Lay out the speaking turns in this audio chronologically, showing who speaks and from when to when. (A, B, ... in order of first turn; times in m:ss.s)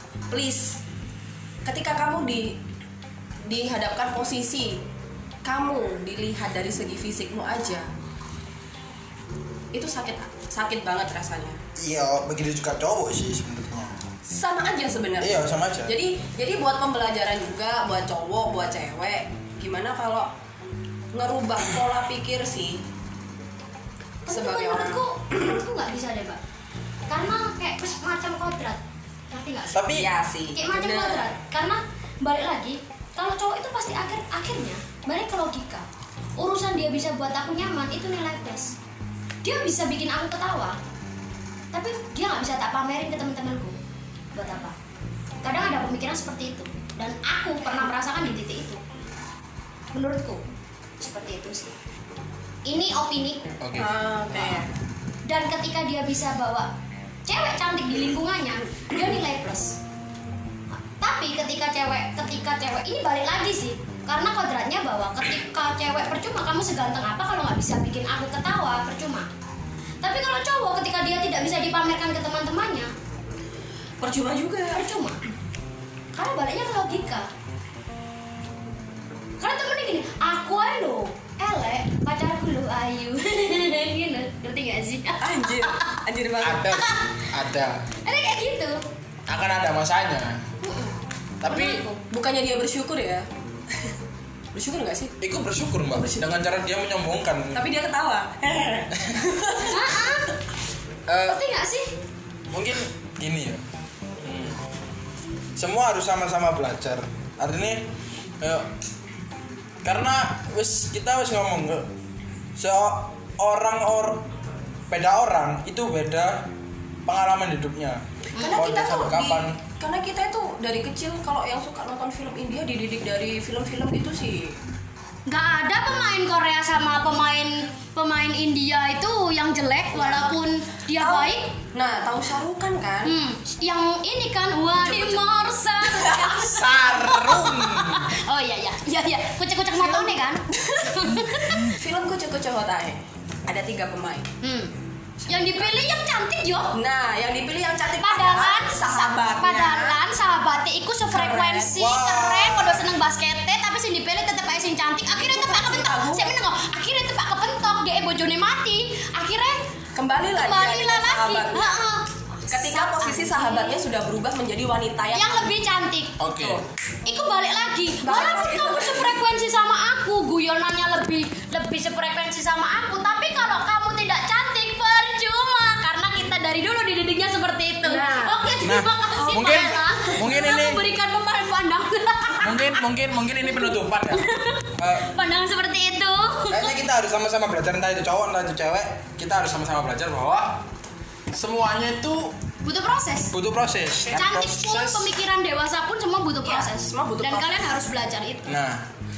0:00.3-0:00.8 A
0:01.6-0:02.6 A
0:03.4-0:04.8 A
0:05.4-0:07.9 A
0:09.7-0:11.6 A
0:11.8-0:14.0 B
0:14.3-0:20.3 A
0:15.2-0:16.0 B
0:21.1-0:22.8 A
0:24.3-0:26.4 C
0:24.3-0:25.6 A
0:27.1-0:29.9 C
0:29.7-0:30.1 B
0:29.9-0:31.3 A
0:30.5-0:35.9 C
0:36.4-0:38.8 C
0:39.4-0:40.8 C
0:41.7-0:43.8 C
0:44.4-0:44.8 C
0:45.4-0:48.8 C
0:49.9-0:50.4 C
0:51.0-0:51.7 C
0:52.7-0:53.5 C
0:53.6-0:54.6 B
0:53.8-0:54.7 A
0:55.3-0:56.7 C
0:57.3-0:59.8 C
1:00.9-1:09.3 C
1:10.0-1:12.9 C
1:14.0-1:14.9 A
1:14.7-1:15.2 C
1:16.1-1:17.3 C
1:19.4-1:26.0 C
1:25.2-1:26.7 A
1:26.4-1:27.9 B
1:26.7-1:27.0 C
1:28.0-1:28.8 C
1:29.3-1:30.5 B
1:30.6-1:32.0 C
1:31.4-1:31.8 B
1:32.0-1:33.9 A
1:34.5-1:35.2 A
1:35.2-1:37.6 B
1:35.9-1:36.3 A
1:37.5-1:40.2 A
1:39.0-1:39.3 B
1:39.6-1:40.3 C
1:41.1-1:41.4 B
1:41.3-1:41.9 C
1:42.5-1:43.6 B
1:44.2-1:44.6 B
1:45.6-1:48.7 B
1:49.8-1:51.9 B
1:52.6-1:54.3 B
1:54.9-1:56.5 B
1:57.1-1:59.6 B
1:58.4-1:58.6 C
1:58.4-2:04.6 A
2:05.3-2:11.6 C
2:09.9-2:10.3 A
2:11.0-2:13.1 A
2:13.0-2:21.7 C
2:14.8-2:15.2 A
2:15.8-2:16.7 A
2:16.3-2:18.1 B
2:19.8-2:24.3 A
2:24.4-2:24.7 C
2:25.3-2:26.8 C
2:26.7-2:30.0 A
2:28.0-2:39.6 C
2:31.1-2:31.8 A
2:31.8-2:32.9 B
2:35.1-2:36.4 A
2:40.0-2:41.9 A
2:40.4-2:43.8 C
2:42.5-2:45.5 A
2:45.1-2:46.2 C
2:46.2-2:46.6 B
2:46.4-2:46.7 A
2:47.0-3:02.8 C
2:48.0-2:49.2 A
2:57.8-2:58.6 A
2:58.6-3:00.8 B
2:59.2-3:00.2 A
3:02.4-3:04.3 B
3:03.4-3:06.7 C
3:04.8-3:05.1 B
3:06.5-3:10.7 B
3:11.3-3:12.4 B
3:12.6-3:13.3 C
3:13.3-3:15.1 B
3:14.1-3:18.6 C
3:16.4-3:17.7 A
3:18.5-3:18.9 B